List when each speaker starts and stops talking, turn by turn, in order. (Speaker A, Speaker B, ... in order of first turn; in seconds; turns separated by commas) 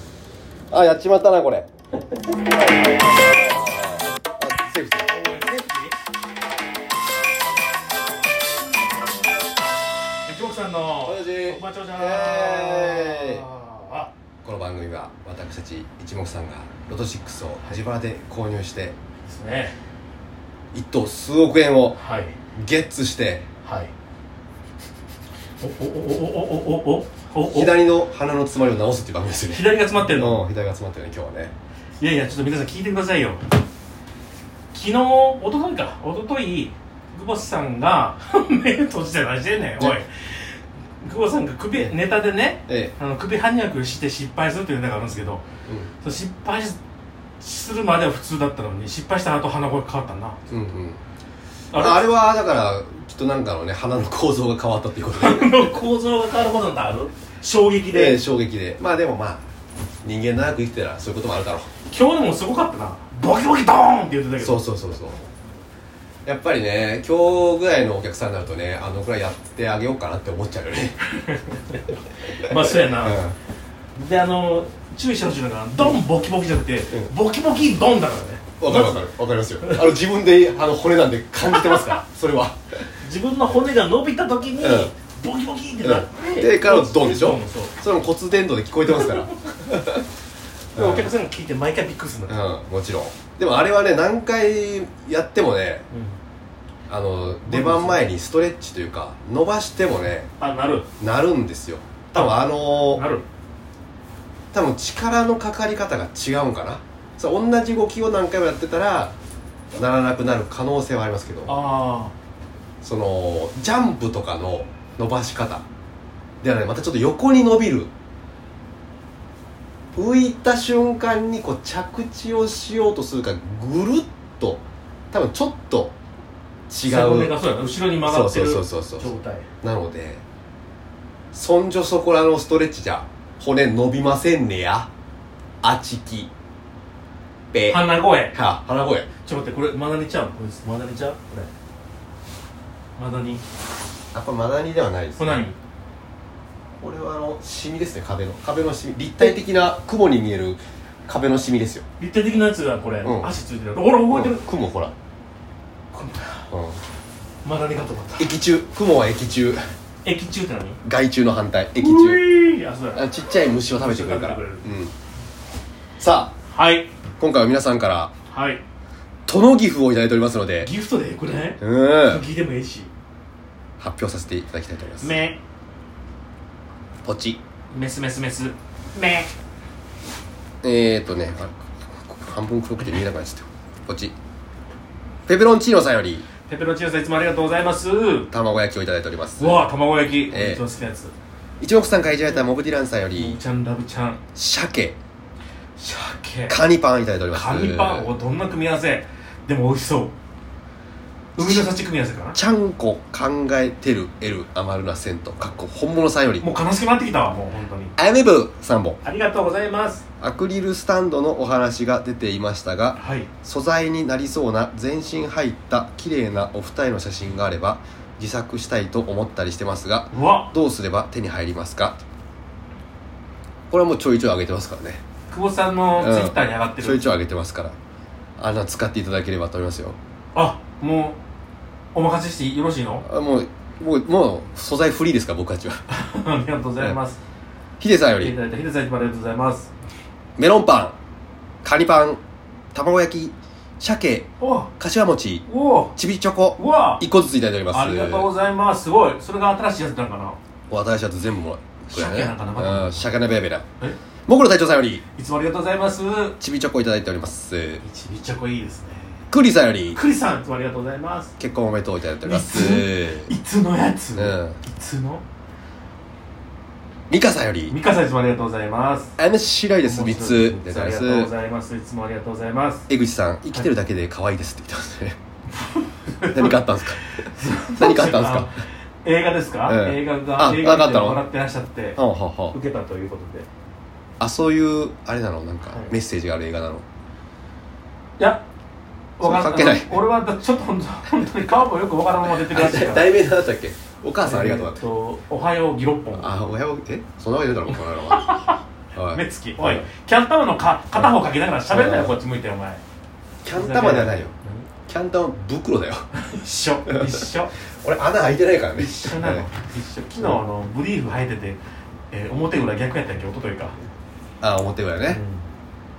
Speaker A: 0.7-1.7, Speaker A: 2.3-5.1, Speaker B: 5.0-6.0, Speaker B: 10.2-14.1, Speaker A: 11.0-13.4, Speaker A: 14.4-18.9, Speaker B: 19.3-19.7, Speaker A: 20.7-22.0, Speaker B: 22.0-22.3, Speaker A: 22.5-23.4, Speaker B: 23.6-23.9, Speaker B: 25.6-27.7, Speaker A: 27.5-31.5, Speaker B: 29.5-30.4, Speaker B: 32.0-33.5, Speaker B: 34.7-45.4, Speaker A: 42.7-42.9, Speaker B: 46.0-46.8, Speaker B: 47.4-50.4, Speaker A: 50.5-51.0, Speaker B: 51.7-52.1, Speaker A: 51.7-55.8, Speaker B: 55.1-58.2, Speaker A: 57.9-59.4, Speaker A: 60.0-61.7, Speaker B: 61.9-64.6, Speaker A: 64.4-65.2, Speaker A: 66.2-71.0, Speaker B: 71.1-71.8, Speaker A: 72.3-73.3, Speaker B: 72.4-73.2, Speaker B: 73.9-79.1, Speaker A: 78.6-82.8, Speaker B: 79.6-79.9, Speaker B: 81.5-81.9, Speaker B: 83.0-87.7, Speaker A: 84.6-84.9, Speaker A: 85.8-90.0, Speaker A: 90.7-91.1, Speaker B: 90.7-92.4, Speaker A: 92.3-95.8, Speaker B: 95.9-96.2, Speaker A: 96.9-100.3, Speaker B: 97.5-98.0, Speaker B: 100.4-100.9, Speaker A: 101.0-103.0, Speaker B: 102.1-102.4, Speaker B: 102.9-103.2, Speaker A: 104.5-109.1, Speaker A: 109.8-111.6, Speaker B: 111.5-112.1, Speaker A: 112.8-115.6, Speaker A: 116.4-117.9, Speaker A: 119.9-125.9, Speaker A: 126.7-127.4, Speaker B: 126.8-129.5, Speaker A: 128.0-129.1, Speaker A: 129.6-130.2, Speaker A: 131.3-134.9, Speaker A: 135.6-136.3, Speaker A: 137.5-139.1, Speaker B: 137.7-138.3, Speaker B: 139.2-141.5, Speaker B: 143.0-143.4, Speaker A: 144.1-145.5, Speaker B: 145.2-145.5, Speaker A: 146.8-151.8, Speaker B: 152.0-154.5, Speaker A: 153.0-153.3, Speaker A: 154.1-154.9, Speaker B: 155.9-156.5, Speaker A: 156.5-156.8, Speaker B: 157.4-158.3, Speaker A: 158.2-159.6, Speaker B: 160.0-160.8, Speaker A: 160.8-162.3, Speaker B: 161.8-164.7, Speaker A: 162.9-164.9, Speaker A: 166.0-166.3, Speaker B: 166.5-166.9, Speaker A: 167.2-168.1, Speaker B: 168.3-168.6, Speaker A: 169.3-170.7, Speaker B: 170.6-172.9, Speaker A: 171.6-172.2, Speaker A: 173.8-175.2, Speaker B: 175.0-175.4, Speaker A: 177.0-177.4, Speaker B: 177.7-179.3, Speaker A: 180.6-184.1, Speaker A: 185.3-186.2, Speaker B: 186.5-188.3, Speaker A: 188.3-189.7, Speaker B: 189.4-191.1, Speaker A: 190.3-190.6, Speaker A: 191.6-193.4, Speaker B: 193.1-194.2, Speaker A: 194.3-195.0, Speaker B: 195.8-196.6, Speaker A: 196.5-198.1, Speaker B: 197.3-200.1, Speaker B: 201.3-202.4, Speaker A: 201.4-201.7, Speaker A: 202.3-206.4, Speaker B: 206.4-207.9, Speaker A: 208.0-209.0, Speaker B: 209.0-210.0, Speaker A: 210.2-222.0, Speaker B: 213.0-213.3, Speaker B: 220.1-220.5, Speaker A: 223.7-225.0, Speaker B: 225.3-227.1, Speaker A: 226.0-227.7, Speaker A: 228.4-230.0, Speaker B: 230.3-231.2, Speaker B: 231.9-233.0, Speaker A: 233.0-235.8, Speaker B: 235.9-237.2, Speaker A: 237.8-238.3, Speaker B: 238.2-239.7, Speaker A: 240.4-240.9, Speaker A: 241.6-242.2, Speaker A: 242.7-244.3, Speaker B: 244.4-244.7, Speaker A: 244.8-248.3, Speaker B: 245.5-245.9, Speaker B: 246.6-247.0, Speaker B: 247.7-250.4, Speaker A: 250.7-253.6, Speaker B: 251.9-253.1, Speaker A: 254.3-255.0, Speaker B: 255.2-256.4, Speaker A: 256.4-257.8, Speaker B: 257.8-259.2, Speaker A: 259.3-260.0, Speaker B: 259.9-261.3, Speaker A: 261.4-263.3, Speaker B: 262.2-265.2, Speaker A: 264.1-264.6, Speaker A: 267.1-267.7, Speaker B: 267.7-269.1, Speaker A: 269.2-271.3, Speaker B: 269.8-272.9, Speaker A: 272.9-275.2, Speaker B: 275.6-282.0, Speaker A: 276.2-277.1, Speaker A: 277.7-278.5, Speaker A: 279.6-281.2, Speaker A: 281.9-282.5, Speaker B: 282.5-283.5, Speaker A: 284.2-286.8, Speaker B: 288.2-288.4, Speaker B: 289.2-293.1, Speaker A: 289.2-290.0, Speaker A: 292.4-294.8, Speaker B: 294.2-296.4, Speaker A: 296.1-298.4, Speaker B: 297.7-298.6, Speaker A: 298.9-299.9, Speaker B: 299.1-302.8, Speaker A: 301.7-302.1, Speaker A: 303.4-304.3, Speaker B: 303.5-304.6, Speaker A: 304.9-306.1, Speaker B: 306.1-307.5, Speaker A: 307.8-309.5, Speaker B: 308.7-311.6, Speaker B: 312.1-313.8, Speaker A: 314.4-315.2, Speaker B: 315.1-315.4